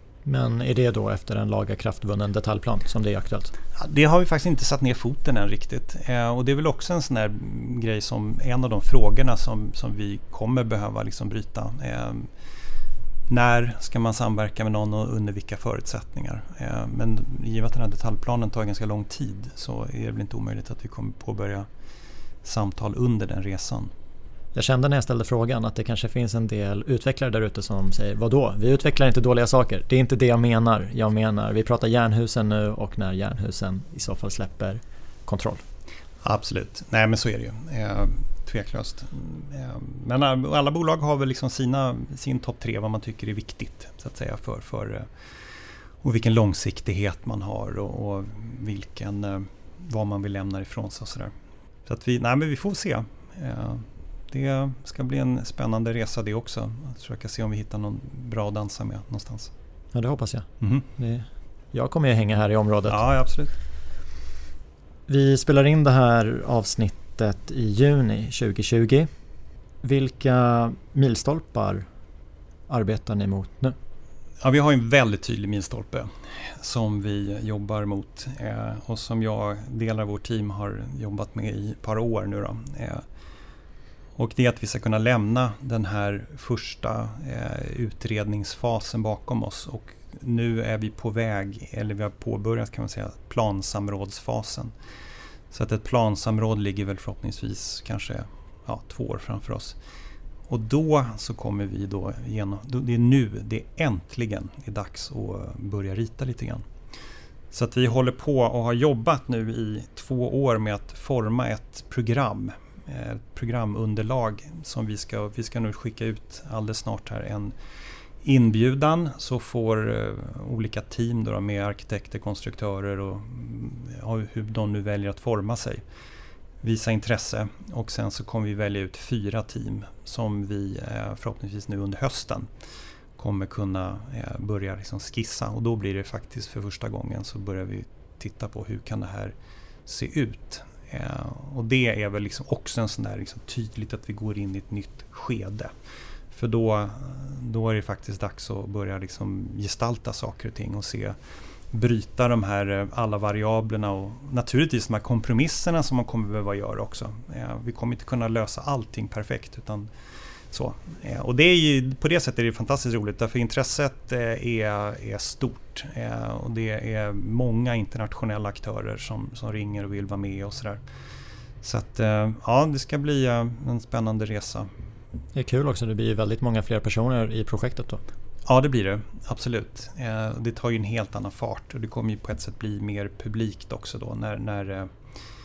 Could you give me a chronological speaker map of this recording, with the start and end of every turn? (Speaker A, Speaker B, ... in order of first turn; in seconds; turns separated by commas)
Speaker A: 0.2-3.5, Speaker B: 3.7-12.3, Speaker B: 13.3-21.7, Speaker B: 22.4-23.9, Speaker A: 24.5-35.6, Speaker B: 36.2-45.1, Speaker B: 46.0-51.3, Speaker B: 51.9-59.5, Speaker A: 59.9-63.0, Speaker B: 60.6-60.9, Speaker B: 62.9-63.5, Speaker A: 65.1-69.1, Speaker A: 69.8-71.8, Speaker A: 72.7-73.8, Speaker B: 74.4-83.0, Speaker B: 84.2-94.7, Speaker B: 95.5-99.8, Speaker B: 100.5-106.7, Speaker B: 107.5-117.5, Speaker B: 118.2-125.8, Speaker B: 126.6-132.5, Speaker B: 133.2-139.3, Speaker B: 139.8-145.7, Speaker B: 146.3-151.2, Speaker B: 151.7-159.9, Speaker B: 160.5-170.8, Speaker B: 171.6-174.7, Speaker A: 175.3-178.0, Speaker B: 178.4-184.9